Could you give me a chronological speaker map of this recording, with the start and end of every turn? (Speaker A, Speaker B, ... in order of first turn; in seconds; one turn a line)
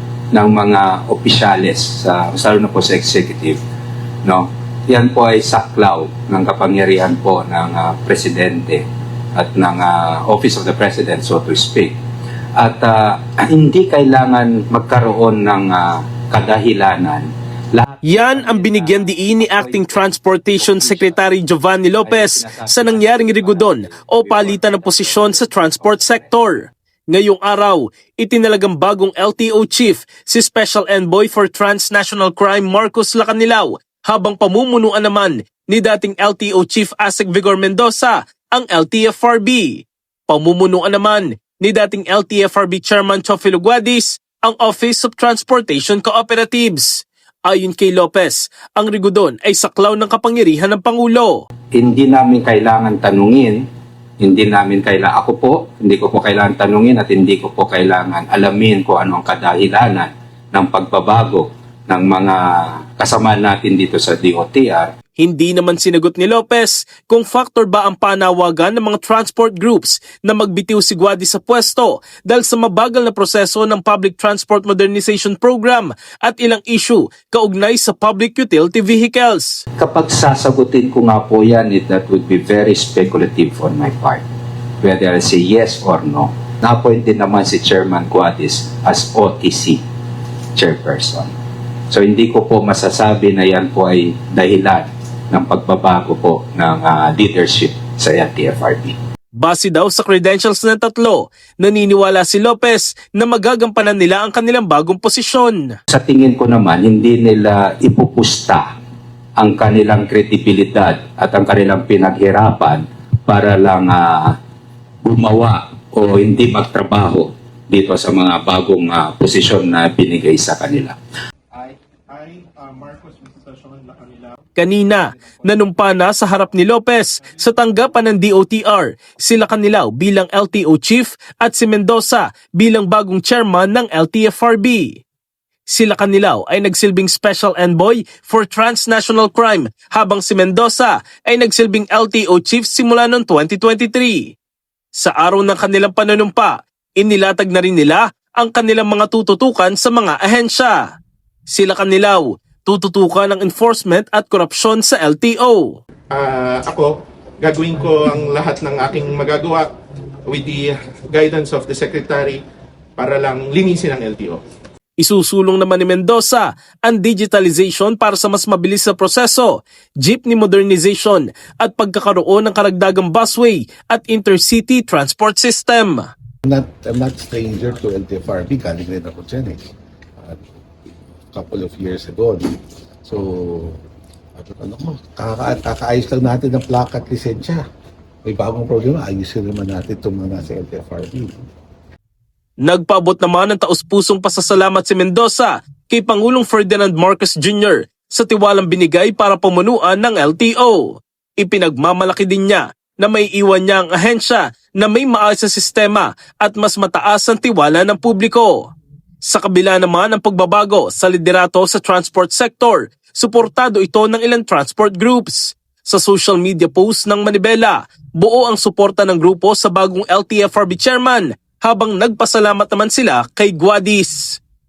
Speaker A: 0.3-3.6
Speaker A: 4.2-8.8
Speaker A: 9.3-11.9
Speaker A: 12.6-21.2
Speaker B: 18.0-51.4
Speaker A: 22.0-26.3
Speaker A: 51.7-53.6
Speaker A: 54.2-64.9
Speaker B: 65.2-79.6
Speaker A: 79.8-84.2
Speaker A: 84.8-89.8
Speaker A: 90.6-91.3
Speaker A: 91.9-99.0
Speaker B: 99.4-105.8
Speaker A: 105.9-108.7
Speaker A: 109.4-114.4
Speaker A: 115.0-121.0
Speaker C: 121.5-124.4
Speaker B: 124.6-135.0
Speaker B: 135.7-144.3
Speaker B: 144.9-150.8
Speaker B: 151.5-155.8
Speaker C: 156.1-159.7
Speaker C: 160.3-162.4
Speaker C: 163.0-164.4
Speaker B: 165.0-176.1
Speaker D: 176.4-179.6
Speaker D: 181.3-182.5
Speaker D: 183.0-183.8
Speaker D: 184.4-187.6
Speaker D: 188.3-191.4
Speaker B: 192.6-208.7
Speaker B: 209.2-224.4